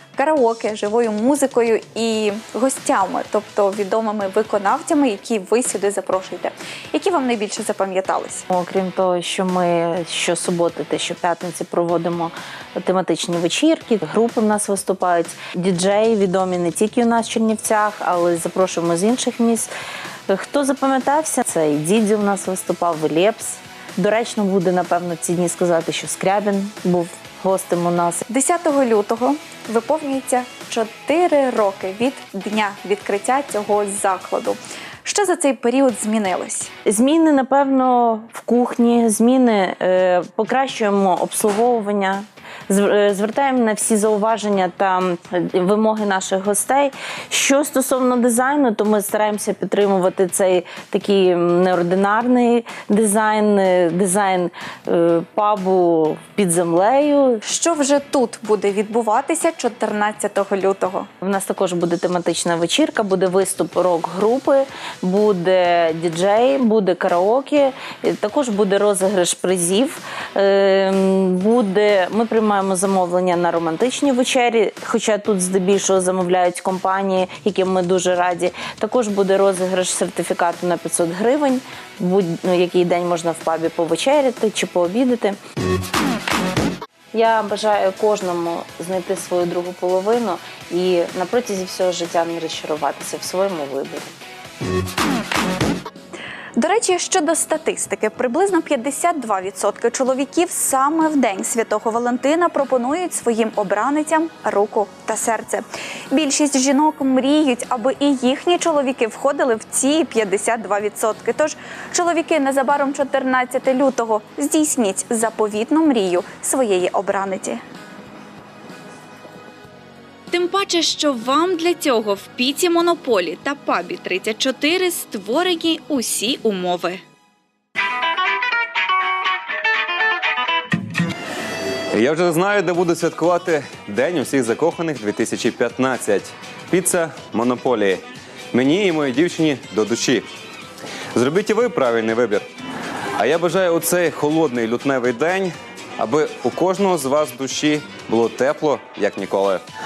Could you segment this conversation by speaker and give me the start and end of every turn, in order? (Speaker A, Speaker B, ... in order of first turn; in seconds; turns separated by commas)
Speaker A: 0.1-8.4, Speaker B: 8.5-19.7, Speaker B: 20.3-28.2, Speaker A: 28.3-36.7, Speaker B: 36.9-57.4, Speaker A: 57.4-61.1, Speaker B: 61.2-85.4, Speaker B: 87.1-94.1, Speaker A: 96.6-117.6, Speaker A: 120.3-127.0, Speaker C: 131.9-140.3, Speaker C: 141.1-142.5, Speaker C: 143.2-149.6